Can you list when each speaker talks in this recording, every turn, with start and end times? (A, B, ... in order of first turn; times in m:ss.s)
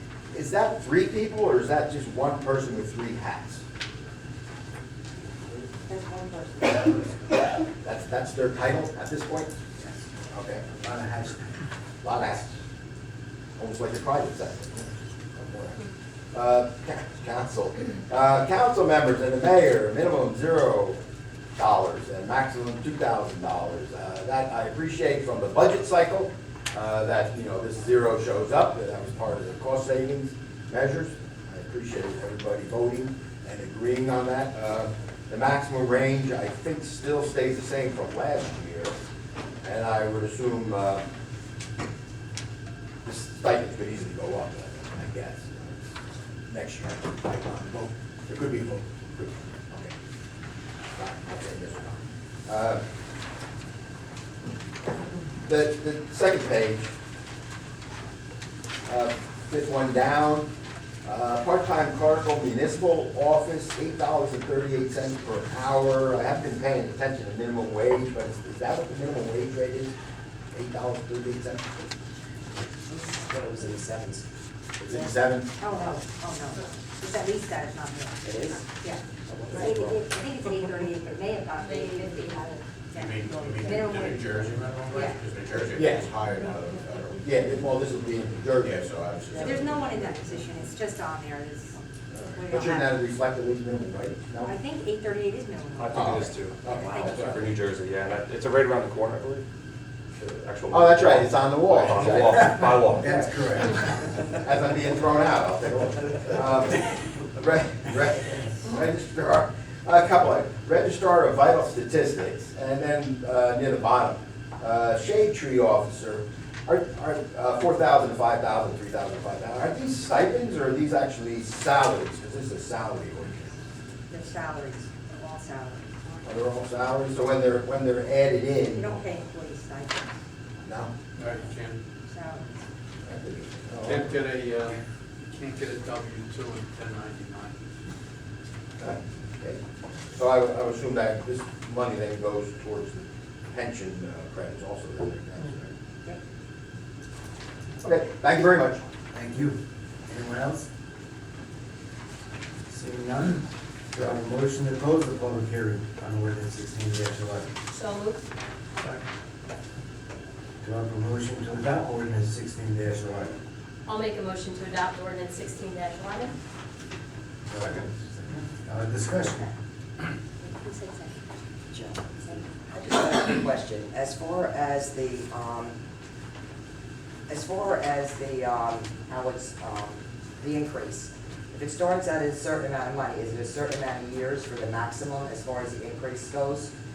0:00.3-0:03.6 A
0:05.7-0:07.1 B
0:07.8-0:09.5 A
0:10.3-0:10.8 A
0:12.0-0:12.6 A
0:13.6-0:15.8 A
0:16.3-0:21.0 A
0:21.6-0:39.0 A
0:39.6-0:41.0 A
0:43.0-0:45.8 A
0:46.5-0:49.9 A
0:51.0-0:52.8 A
0:55.4-0:56.9 A
0:58.8-1:00.5 A
1:01.0-1:09.9 A
1:10.5-1:11.6 A
1:12.9-1:14.2 C
1:14.8-1:15.6 A
1:15.6-1:19.0 B
1:18.2-1:18.7 C
1:19.3-1:20.0 C
1:19.5-1:25.2 B
1:21.6-1:22.6 D
1:22.9-1:27.7 E
1:25.5-1:26.1 A
1:27.2-1:28.8 A
1:28.6-1:30.0 E
1:29.3-1:33.0 B
1:32.1-1:34.5 A
1:34.4-1:37.6 B
1:35.8-1:39.4 F
1:35.9-1:37.4 A
1:40.2-1:43.2 F
1:40.7-1:43.3 A
1:43.2-1:43.6 G
1:44.3-2:03.5 A
2:04.1-2:06.4 B
2:06.2-2:09.0 A
2:08.7-2:10.2 B
2:10.6-2:10.9 A
2:11.2-2:11.8 H
2:12.0-2:12.6 B
2:13.0-2:14.1 A
2:13.8-2:17.5 H
2:18.8-2:19.6 A
2:20.1-2:25.7 A
2:27.8-2:28.8 A
2:29.2-2:29.6 G
2:30.1-2:30.6 G
2:32.7-2:33.4 G
2:33.9-2:37.5 G
2:37.7-2:38.2 D
2:40.6-2:43.4 G
2:43.8-2:46.3 D
2:47.5-2:47.8 G
2:48.6-2:49.4 G
2:49.2-2:49.5 B
2:50.4-2:51.2 B
2:51.7-2:55.8 C
2:57.3-3:06.7 C